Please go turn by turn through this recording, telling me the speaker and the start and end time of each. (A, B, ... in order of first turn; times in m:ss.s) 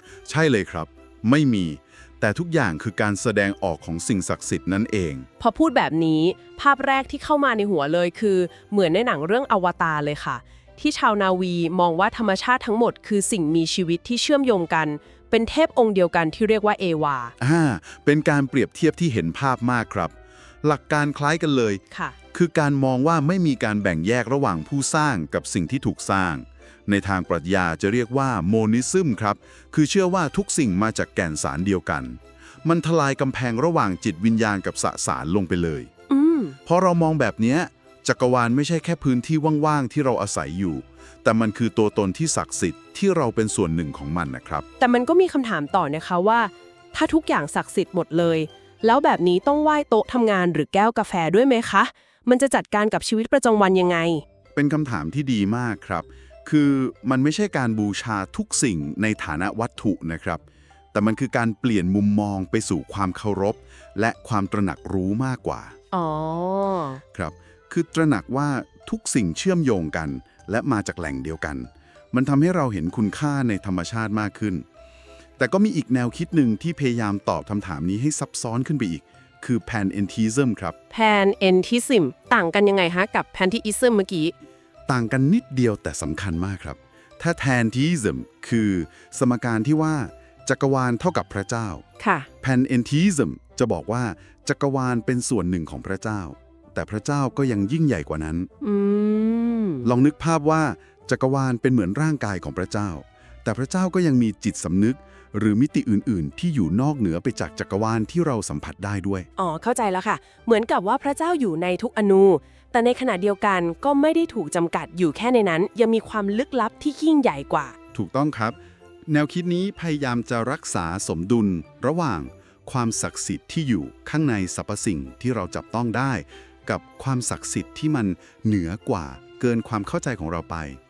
0:00.3-0:05.3 A
0:05.4-0:17.3 B
0:17.4-0:21.8 A
0:21.9-0:22.2 B
0:22.3-0:35.9 A
0:36.1-0:36.6 B
0:36.7-0:44.6 A
0:44.8-0:54.2 B
0:54.5-1:00.4 A
1:00.9-1:05.8 A
1:05.9-1:07.0 B
1:07.1-1:14.6 A
1:15.4-1:20.8 A
1:20.9-1:24.3 B
1:24.9-1:31.8 A
1:32.0-1:32.3 B
1:32.4-1:38.5 A
1:38.6-1:39.9 B
1:39.8-1:49.3 A
1:49.4-1:57.8 B
1:57.9-2:10.8 A